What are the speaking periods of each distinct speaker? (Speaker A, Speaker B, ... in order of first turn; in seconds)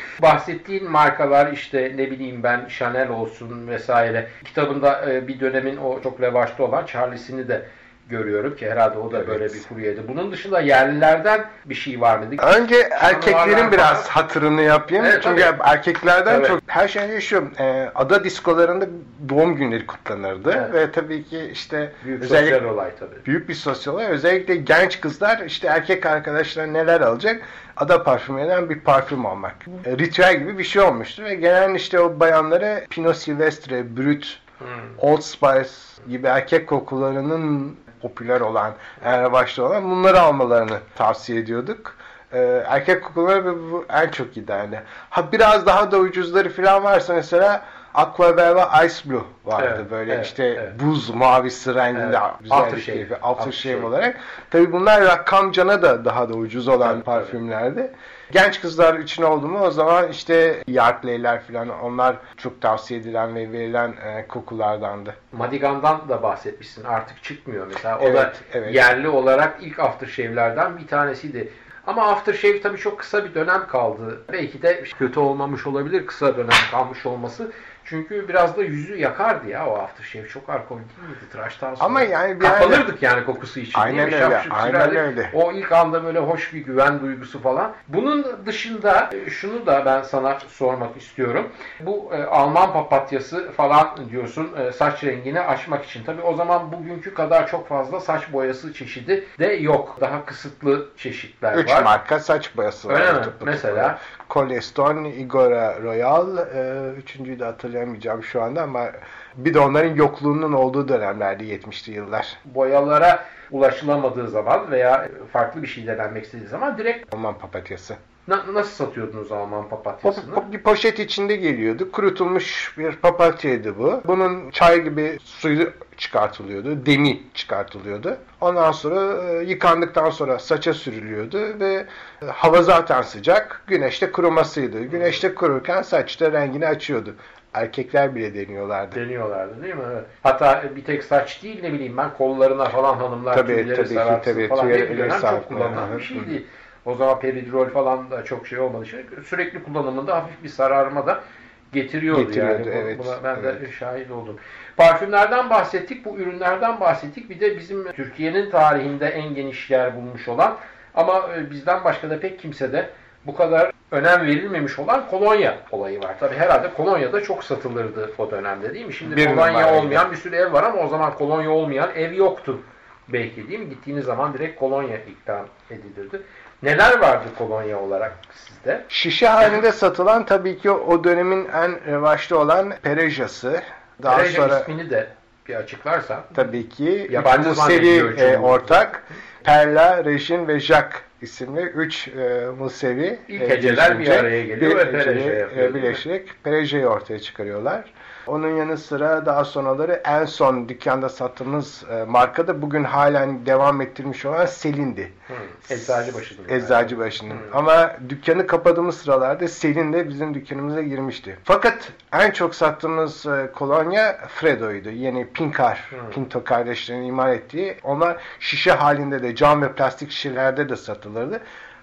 Speaker A: 0.2-14.1, 15.0-15.5, 16.3-16.6, 22.0-23.2, 34.6-34.9, 49.6-50.7, 51.9-53.9, 56.8-57.3, 65.3-101.9, 102.9-104.0, 112.4-117.1, 118.2-120.4, 138.9-151.2, 151.7-178.9, 184.0-186.3, 187.1-188.8, 193.3-196.0, 205.3-207.5
Speaker B: 9.1-9.6, 12.4-22.6, 23.2-34.4, 35.0-65.2, 68.0-68.9, 81.8-82.9, 83.7-85.3, 101.5-112.4, 117.1-118.0, 120.0-139.0, 143.3-146.3, 152.1-153.6, 169.0-170.1, 178.9-184.7, 186.3-221.4